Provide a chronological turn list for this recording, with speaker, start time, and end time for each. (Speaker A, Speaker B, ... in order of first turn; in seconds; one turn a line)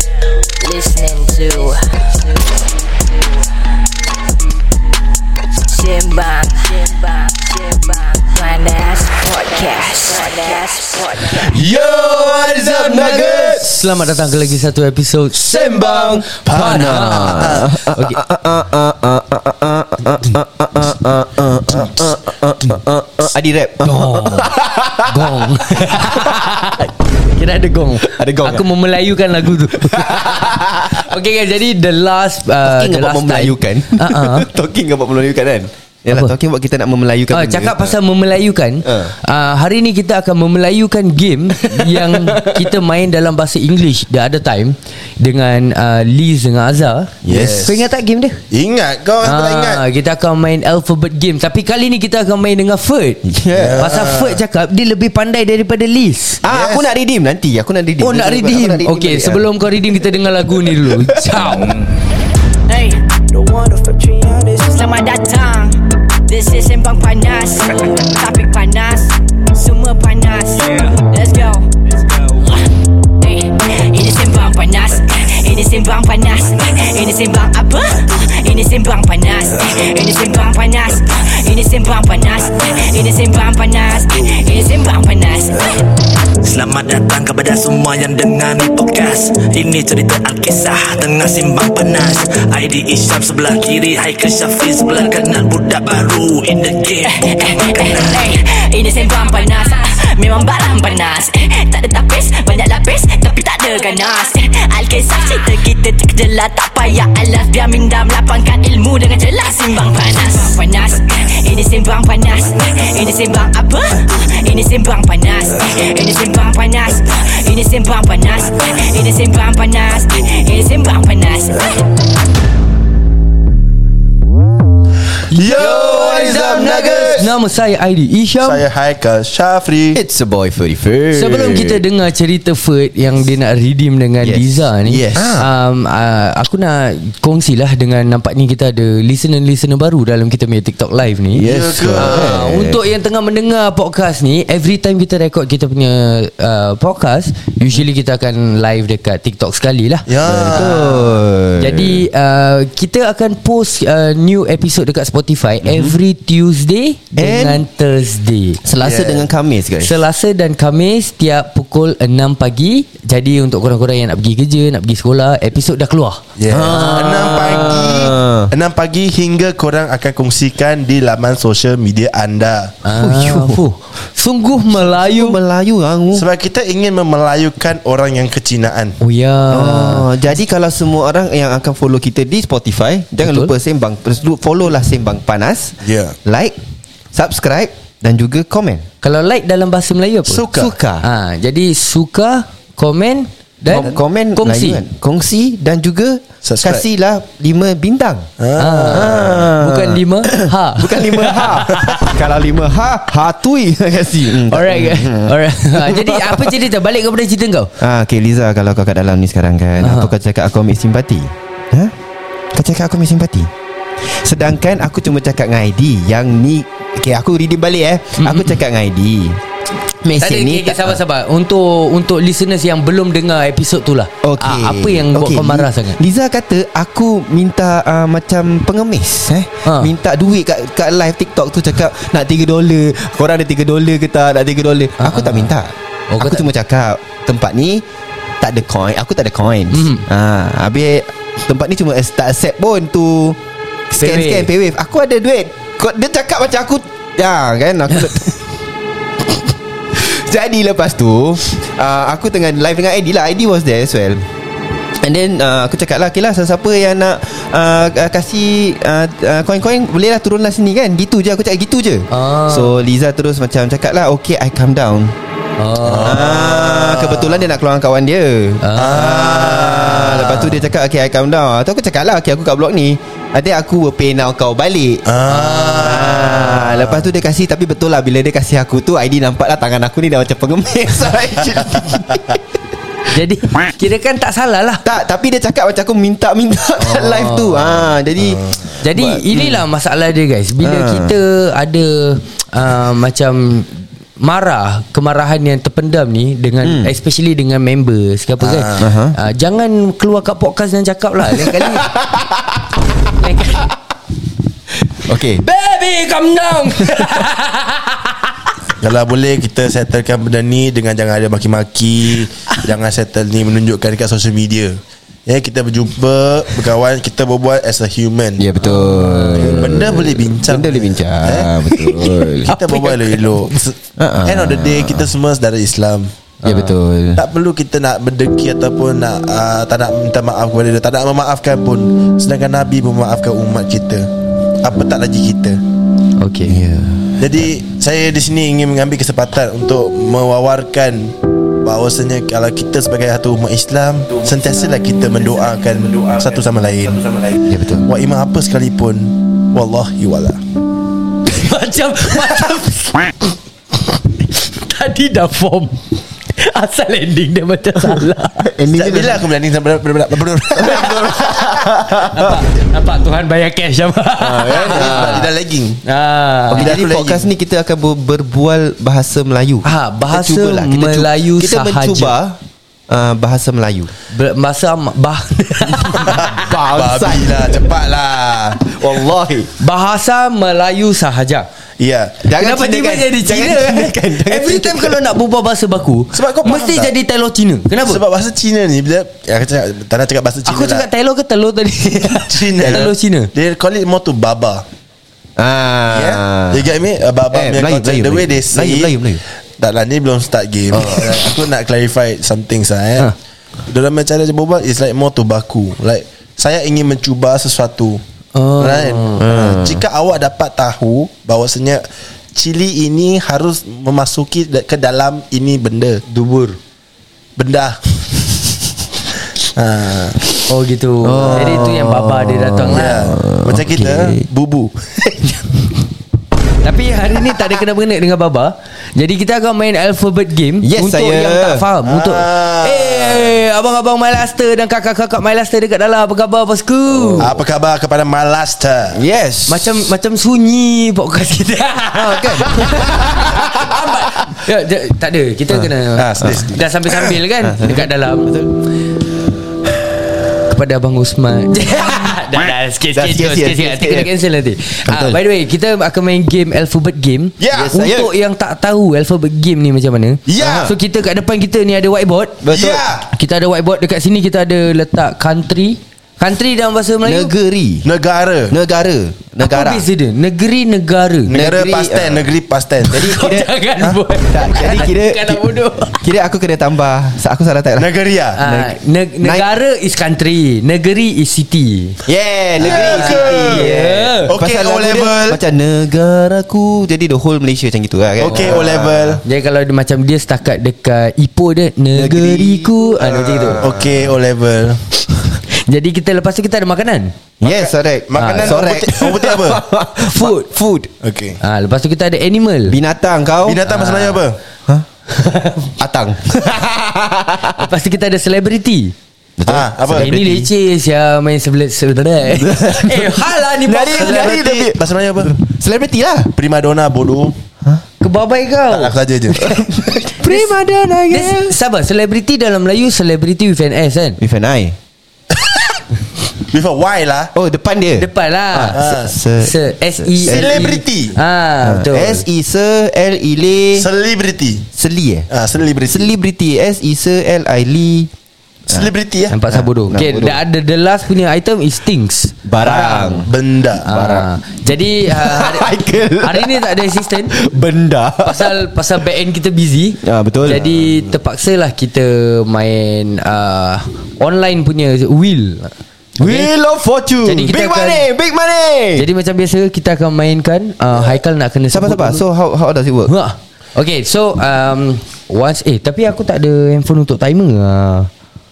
Speaker A: 0.6-2.2
Speaker A: 5.6-11.5
Speaker B: 11.3-13.7
Speaker C: 11.5-13.8
Speaker D: 13.6-15.4
Speaker B: 15.3-17.7
Speaker C: 15.5-26.6
Speaker D: 16.4-18.2
Speaker D: 23.8-34.5
Speaker C: 28.0-28.7
Speaker C: 29.7-31.1
Speaker C: 32.6-38.0
Speaker D: 37.3-48.4
Speaker C: 38.8-39.1
Speaker C: 41.5-42.7
Speaker B: 47.2-47.9
Speaker C: 47.3-47.7
Speaker B: 48.5-49.8
Speaker D: 49.2-56.4
Speaker C: 53.2-54.0
Speaker B: 53.5-54.4
Speaker C: 56.4-59.6
Speaker B: 56.5-56.9
Speaker D: 58.0-61.8
Speaker A: 62.7-71.7
Speaker A: 73.2-85.8
Speaker E: 86.4-97.3
Speaker A: 97.0-121.8
Speaker B: 125.3-127.3
Speaker D: 125.3-128.6
Speaker C: 125.6-126.7
Speaker B: 128.4-130.0
Speaker C: 129.9-131.8
Speaker D: 131.1-151.0
Speaker C: 134.2-135.5
Speaker C: 141.3-142.8
Speaker B: 141.4-142.4
Speaker B: 150.1-150.9
Speaker C: 150.2-152.1
Speaker D: 151.6-159.0
Speaker C: 155.6-156.0
Speaker C: 157.2-157.6
Speaker C: 158.6-159.9
Speaker B: 158.8-159.1
Speaker D: 159.8-167.7
Speaker B: 166.4-172.7
Speaker C: 166.5-168.5
Speaker D: 172.8-175.4
Speaker C: 172.9-173.6
Speaker C: 174.7-176.3
Speaker B: 176.1-179.0
Speaker D: 179.0-180.1
Speaker C: 179.5-186.6
Speaker D: 183.2-183.5
Speaker B: 185.8-186.2
Speaker C: 187.1-188.9
Speaker D: 189.0-190.5
Speaker B: 190.3-190.7
Speaker C: 190.5-191.1
Speaker D: 191.0-194.8
Speaker C: 193.7-198.3
Speaker B: 196.4-196.8
Speaker B: 198.4-199.3
Speaker D: 198.6-202.2
Speaker C: 198.9-206.6
Speaker D: 204.3-207.8
Speaker C: 207.8-211.9
Speaker D: 209.8-210.2
Speaker C: 212.5-219.4
Speaker D: 218.2-218.6
Speaker C: 220.0-221.0
Speaker D: 220.2-226.0
Speaker C: 224.2-237.8
Speaker D: 229.7-229.9
Speaker D: 235.0-235.5
Speaker D: 236.1-236.5
Speaker C: 238.4-243.4
Speaker D: 239.7-240.1
Speaker D: 243.9-244.5
Speaker C: 244.0-248.4
Speaker C: 249.9-254.3
Speaker C: 255.0-265.1
Speaker D: 262.1-262.8
Speaker D: 265.6-266.3
Speaker B: 265.8-267.4
Speaker C: 266.0-275.1
Speaker D: 268.6-269.4
Speaker B: 268.8-270.2
Speaker D: 270.0-270.6
Speaker B: 275.1-277.1
Speaker D: 275.3-276.1
Speaker C: 275.7-282.4
Speaker B: 281.5-282.2
Speaker D: 283.1-284.8
Speaker C: 284.8-289.7
Speaker D: 286.8-287.9
Speaker D: 288.8-301.9
Speaker C: 290.6-291.2
Speaker C: 296.6-296.9
Speaker B: 298.4-298.8
Speaker C: 298.7-299.1
Speaker C: 301.3-302.8
Speaker D: 303.2-303.7
Speaker C: 304.9-305.4
Speaker D: 305.4-308.1
Speaker B: 308.8-318.4
Speaker C: 318.4-322.6
Speaker D: 318.6-320.0
Speaker B: 319.3-326.1
Speaker D: 322.5-323.4
Speaker C: 324.0-325.1
Speaker D: 326.4-326.8
Speaker C: 326.4-327.2
Speaker B: 327.1-334.1
Speaker B: 334.6-335.6
Speaker D: 336.2-336.6
Speaker C: 336.4-337.2
Speaker B: 337.2-350.4
Speaker C: 347.5-347.9
Speaker D: 351.2-353.3
Speaker D: 353.9-355.8
Speaker D: 356.3-358.5
Speaker C: 357.8-359.2
Speaker B: 358.7-361.8
Speaker C: 360.6-362.4
Speaker D: 362.1-365.3
Speaker C: 364.2-365.3
Speaker B: 364.6-365.8
Speaker D: 365.8-366.8
Speaker C: 366.5-373.9
Speaker B: 366.5-367.2
Speaker D: 369.6-372.2
Speaker D: 374.1-376.3
Speaker C: 375.9-377.7
Speaker B: 376.0-378.7
Speaker C: 378.7-379.5
Speaker D: 379.6-381.5
Speaker B: 381.8-382.1
Speaker C: 382.2-385.0
Speaker D: 382.4-388.0
Speaker B: 386.1-386.9
Speaker B: 387.8-390.9
Speaker D: 390.4-393.3
Speaker B: 392.3-394.6
Speaker C: 392.6-392.9
Speaker C: 395.4-396.7
Speaker B: 395.9-398.9
Speaker C: 397.3-399.2
Speaker B: 399.6-403.1
Speaker B: 403.7-408.0
Speaker D: 408.3-409.2
Speaker B: 408.6-416.0
Speaker C: 409.1-409.9
Speaker D: 416.1-416.6
Speaker B: 417.4-418.2
Speaker B: 419.6-420.2
Speaker D: 420.5-423.1
Speaker C: 421.0-424.2
Speaker B: 422.7-425.5
Speaker D: 426.6-437.3
Speaker C: 430.6-431.6
Speaker B: 431.8-433.4
Speaker C: 436.9-437.4
Speaker B: 437.2-439.0
Speaker C: 438.9-439.9
Speaker D: 439.5-448.3
Speaker C: 441.9-443.4
Speaker B: 445.9-447.1
Speaker C: 447.4-448.5
Speaker D: 450.4-462.4
Speaker C: 452.9-454.1
Speaker C: 454.8-455.2
Speaker B: 457.4-457.8
Speaker C: 457.5-458.1
Speaker B: 460.3-460.8
Speaker C: 462.4-462.9
Speaker B: 462.4-463.1
Speaker D: 463.1-467.3
Speaker C: 467.0-467.9
Speaker B: 467.8-468.5
Speaker C: 468.5-469.9
Speaker D: 469.4-471.4
Speaker B: 471.3-473.0
Speaker C: 471.3-472.2
Speaker D: 472.9-476.0
Speaker C: 472.9-473.5
Speaker C: 474.3-479.5
Speaker B: 477.8-478.4
Speaker D: 478.4-482.0
Speaker C: 482.1-489.2
Speaker B: 482.6-483.7
Speaker D: 482.6-484.3
Speaker B: 484.3-485.4
Speaker B: 488.2-489.2
Speaker D: 489.2-493.6
Speaker C: 491.9-494.1
Speaker B: 493.2-494.8
Speaker D: 495.5-497.1
Speaker C: 497.4-500.9
Speaker B: 497.4-499.6
Speaker D: 498.2-498.6
Speaker D: 500.0-500.5
Speaker B: 501.0-501.4
Speaker D: 501.4-502.8
Speaker C: 502.7-503.6
Speaker B: 503.4-504.4
Speaker D: 503.6-504.2
Speaker D: 505.1-505.7
Speaker C: 505.8-507.7
Speaker D: 507.5-508.9
Speaker C: 509.4-510.5
Speaker B: 509.5-510.2
Speaker D: 509.9-514.4
Speaker C: 512.3-516.3
Speaker B: 513.9-515.4
Speaker B: 516.4-517.3
Speaker D: 518.0-519.0
Speaker B: 518.7-519.6
Speaker C: 519.4-521.6
Speaker D: 520.2-520.5
Speaker D: 521.1-524.2
Speaker C: 524.2-524.8
Speaker B: 526.4-527.3
Speaker C: 527.4-530.8
Speaker D: 528.0-528.8
Speaker B: 528.7-529.1
Speaker D: 529.4-532.2
Speaker B: 530.2-531.2
Speaker C: 531.6-533.9
Speaker B: 533.8-534.7
Speaker C: 534.7-535.3
Speaker B: 535.3-536.1
Speaker C: 535.9-538.1
Speaker B: 538.7-539.4
Speaker D: 539.3-543.3
Speaker C: 539.5-540.4
Speaker C: 542.5-543.3
Speaker B: 543.2-543.9
Speaker C: 543.9-544.3
Speaker D: 543.9-547.4
Speaker C: 545.0-548.6
Speaker D: 548.2-556.5
Speaker C: 550.0-550.6
Speaker B: 550.5-551.1
Speaker C: 556.2-559.1
Speaker D: 557.2-558.1
Speaker D: 559.0-562.2
Speaker C: 561.7-563.1
Speaker D: 563.1-568.1